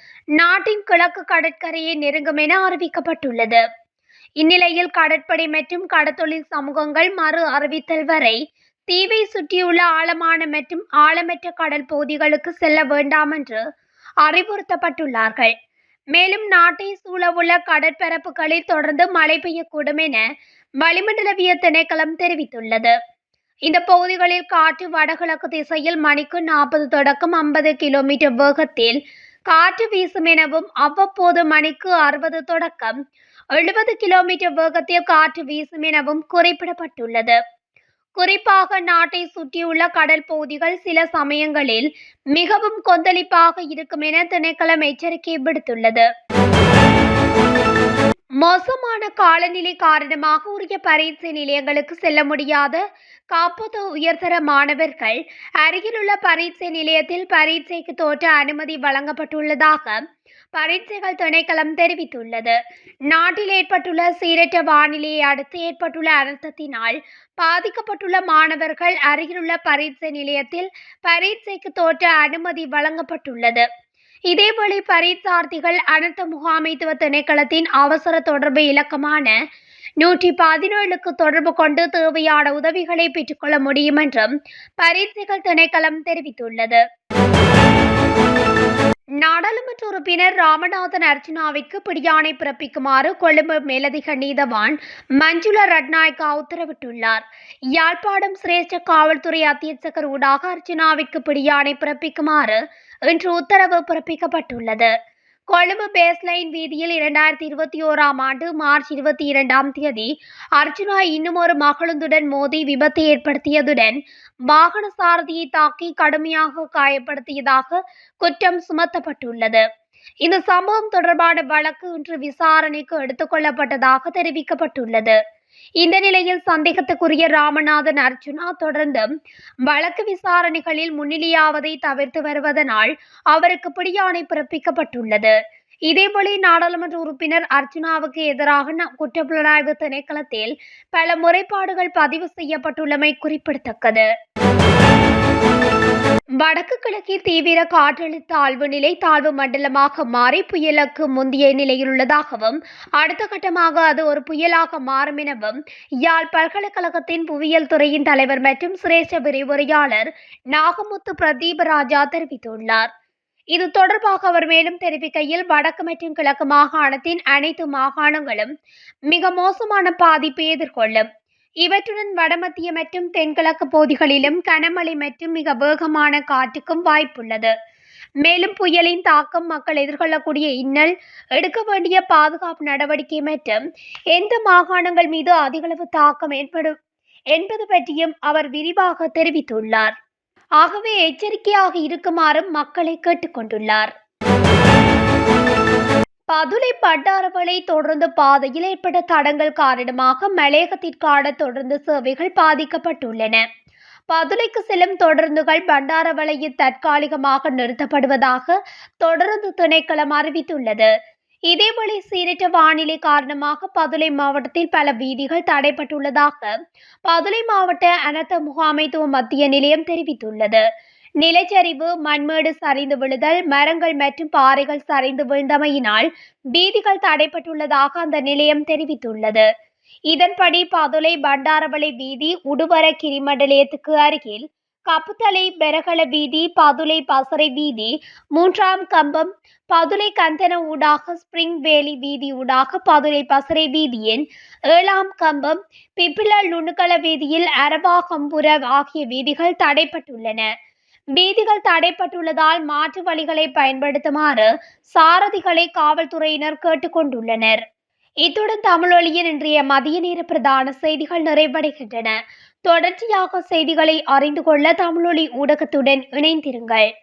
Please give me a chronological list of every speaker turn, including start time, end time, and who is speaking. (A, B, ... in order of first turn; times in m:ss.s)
0:00.4-0:03.6 A
0:04.4-0:13.6 A
0:14.2-0:15.5 A
0:16.1-0:20.3 A
0:20.8-0:23.0 A
0:23.7-0:29.0 A
0:29.5-0:33.0 A
0:33.5-0:37.4 A
0:38.2-0:46.1 A
0:48.4-1:00.0 A
1:00.6-1:02.6 A
1:03.1-1:13.7 A
1:14.3-1:19.4 A
1:20.0-1:26.8 A
1:29.2-1:37.2 A
1:37.7-1:44.9 A
1:45.5-1:54.0 A
1:54.5-1:59.6 A
2:00.2-2:05.2 A
2:05.8-2:09.1 A
2:09.7-2:15.4 A
2:15.9-2:24.1 A
2:26.4-2:42.9 A
2:43.5-2:48.5 A
2:49.1-2:51.1 A
2:51.6-2:57.5 A
2:58.2-3:03.6 A
3:04.1-3:06.8 A
3:07.3-3:09.9 A
3:10.6-3:13.9 A
3:16.3-3:23.4 A
3:24.1-3:30.9 A
3:31.5-3:36.5 A
3:37.1-3:40.6 A
3:41.2-3:49.5 A
3:50.1-4:10.5 A
4:11.2-4:17.6 A
4:18.2-4:22.2 A
4:22.7-4:26.9 A